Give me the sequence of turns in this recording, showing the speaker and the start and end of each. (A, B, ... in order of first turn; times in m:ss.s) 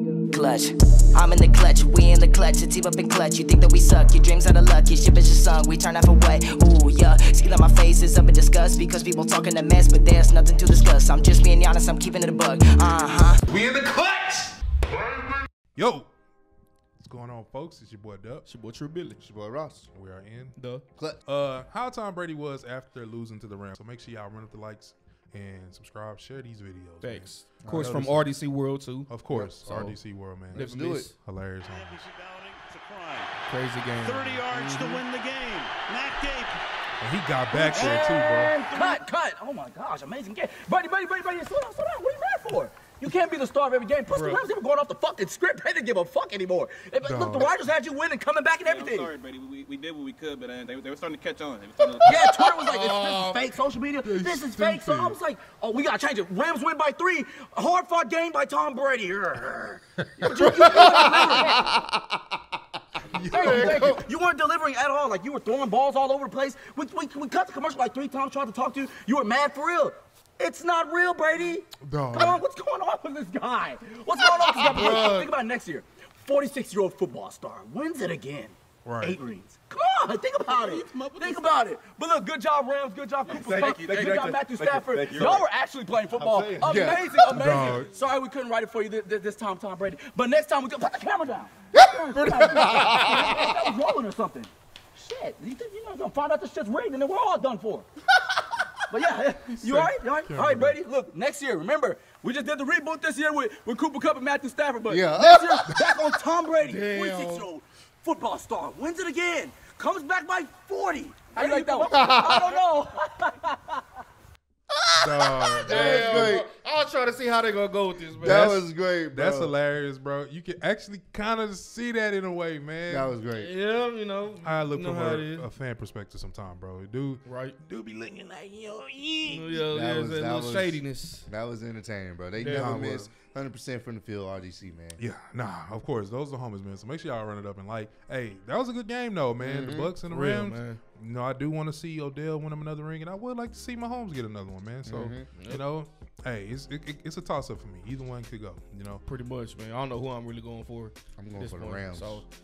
0:00.3-0:13.4 A
0:13.5-0:14.5 B
0:15.8-0:16.1 B
0:17.0-0:18.5 B
0:18.5-0:19.2 C
0:19.2-0:19.9 D
0:19.9-0:20.6 B
0:20.6-0:20.9 C
0:20.9-0:21.2 D
0:21.2-0:28.3 B
0:27.0-0:29.2 C
0:27.6-0:28.1 D
0:29.1-0:32.0 B
0:29.3-0:31.1 D
0:30.5-0:31.2 C
0:31.7-0:33.3 E
0:33.5-0:35.0 C
0:34.0-0:36.6 E
0:37.0-0:38.6 B
0:37.5-0:49.1 F
0:38.6-0:38.9 E
0:44.1-0:44.4 C
0:47.0-0:47.5 B
0:48.6-0:52.5 G
0:52.0-1:01.6 F
0:52.7-0:53.4 C
0:54.0-0:55.2 B
1:00.2-1:02.2 D
1:03.1-1:04.0 D
1:03.3-1:37.9 F
1:03.4-1:03.9 B
1:11.8-1:12.4 B
1:18.8-1:19.2 B
1:20.5-1:21.6 G
1:23.3-1:25.4 G
1:26.2-1:27.3 G
1:26.6-1:27.1 D
1:27.3-1:27.9 B
1:32.2-1:33.4 D
1:38.9-1:53.8 F
1:39.6-1:40.8 B
1:44.9-1:45.7 D
1:46.6-1:47.5 C
1:51.4-1:52.5 G
1:51.9-1:52.4 D
1:54.8-1:56.5 D
1:55.0-1:55.9 B
1:55.6-1:58.4 C
1:58.2-1:59.6 D
1:58.2-2:03.2 B
2:02.9-2:03.5 D
2:03.3-2:05.5 C
2:04.4-2:09.7 B
2:07.2-2:07.6 C
2:09.3-2:11.3 C
2:09.7-2:15.0 D
2:12.4-2:12.8 C
2:12.4-2:13.1 B
2:15.0-2:29.0 B
2:19.4-2:20.0 D
2:20.0-2:20.8 C
2:24.8-2:25.3 D
2:25.4-2:25.6 C
2:29.0-2:32.3 C
2:31.2-2:32.2 D